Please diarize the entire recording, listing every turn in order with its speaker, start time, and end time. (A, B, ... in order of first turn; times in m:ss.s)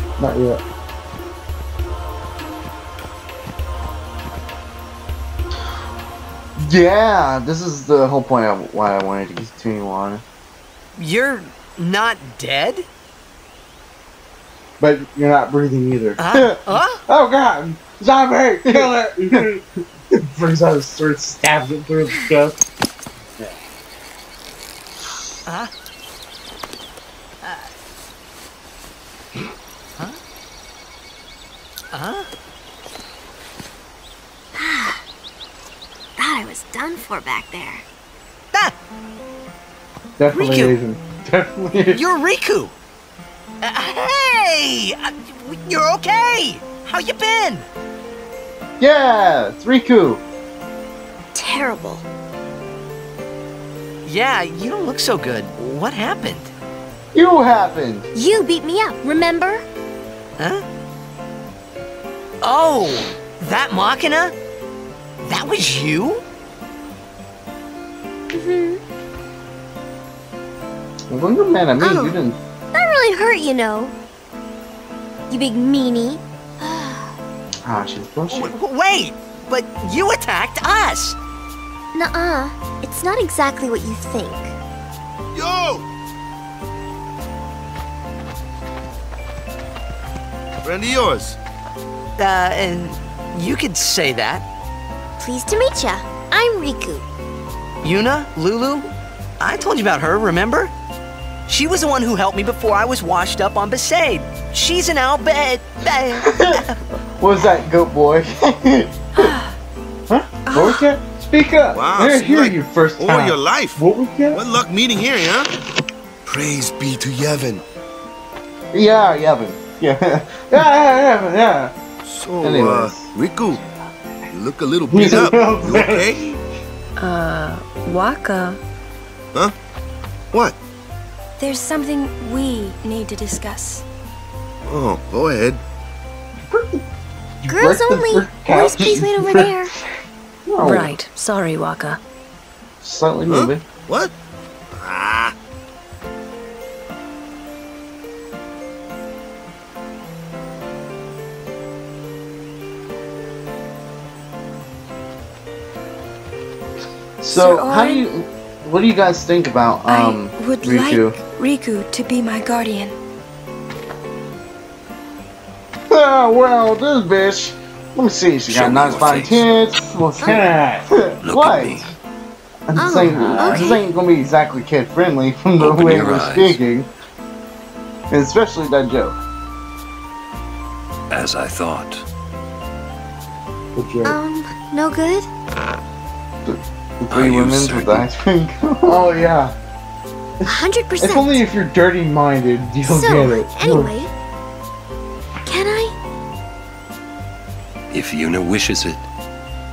0:00.2-0:00.6 A
0:06.6-0:10.2 B
0:11.0-0:12.8 C
0:14.8-0:16.3 A
0:16.2-0:17.0 C
0:17.0-0:22.6 A
0:18.7-0:19.4 B
0:25.4-0:25.7 C
0:27.4-0:27.7 C
0:31.9-0:32.3 C
0:34.5-0:35.0 D
0:36.2-0:37.8 D
0:40.2-0:42.0 A
0:40.3-0:40.7 C
0:41.9-0:42.7 C
0:43.6-0:47.6 C
0:48.8-0:50.2 B
0:51.3-0:52.0 D
0:54.0-0:56.5 C
0:57.1-0:58.1 B
0:58.1-0:59.6 D
1:00.4-1:00.6 C
1:02.4-1:04.3 C
1:05.2-1:06.2 C
1:08.3-1:08.8 D
1:11.1-1:12.4 B
1:11.8-1:12.2 D
1:12.7-1:13.9 D
1:15.3-1:17.1 D
1:17.6-1:18.5 B
1:18.3-1:21.2 C
1:21.9-1:24.5 D
1:25.3-1:25.8 E
1:30.6-1:31.4 E
1:32.2-1:34.4 C
1:35.2-1:37.0 D
1:37.8-1:38.9 C
1:39.4-1:40.7 C
1:41.5-1:46.8 C
1:46.3-1:46.6 B
1:47.2-1:49.0 B
1:49.2-1:49.5 F
1:50.1-1:54.4 A
1:50.5-1:50.9 F
1:51.7-1:53.8 E
1:54.3-1:55.5 E
1:56.3-1:57.6 E
1:58.7-2:00.5 B
2:00.5-2:01.7 A
2:02.0-2:03.6 E
2:02.4-2:03.1 B
2:04.3-2:06.3 E
2:04.9-2:06.4 A
2:07.0-2:08.6 G
2:11.4-2:13.8 F
2:14.7-2:15.6 E
2:16.5-2:16.8 A
2:17.4-2:19.8 A
2:17.4-2:19.7 D
2:20.5-2:20.9 B
2:20.6-2:22.0 G
2:22.8-2:23.6 B
2:23.3-2:24.1 E
2:24.7-2:25.3 E
2:37.2-2:41.2 B
2:37.3-2:38.0 F
2:39.9-2:42.9 F
2:45.9-2:51.9 B
2:48.5-2:49.6 H
2:50.2-2:50.9 A
2:51.2-2:51.9 H
2:52.7-2:56.9 B
2:52.7-2:53.8 D
2:53.0-2:53.8 A
2:55.6-2:56.6 H
2:58.1-2:59.2 B
3:01.1-3:02.0 H
3:03.7-3:04.2 A
3:04.0-3:05.3 D
3:06.4-3:09.0 B
3:07.1-3:08.1 H
3:08.8-3:09.5 A
3:10.4-3:13.9 A
3:10.4-3:11.4 D
3:12.8-3:14.1 D
3:15.4-3:15.9 D
3:17.9-3:19.1 H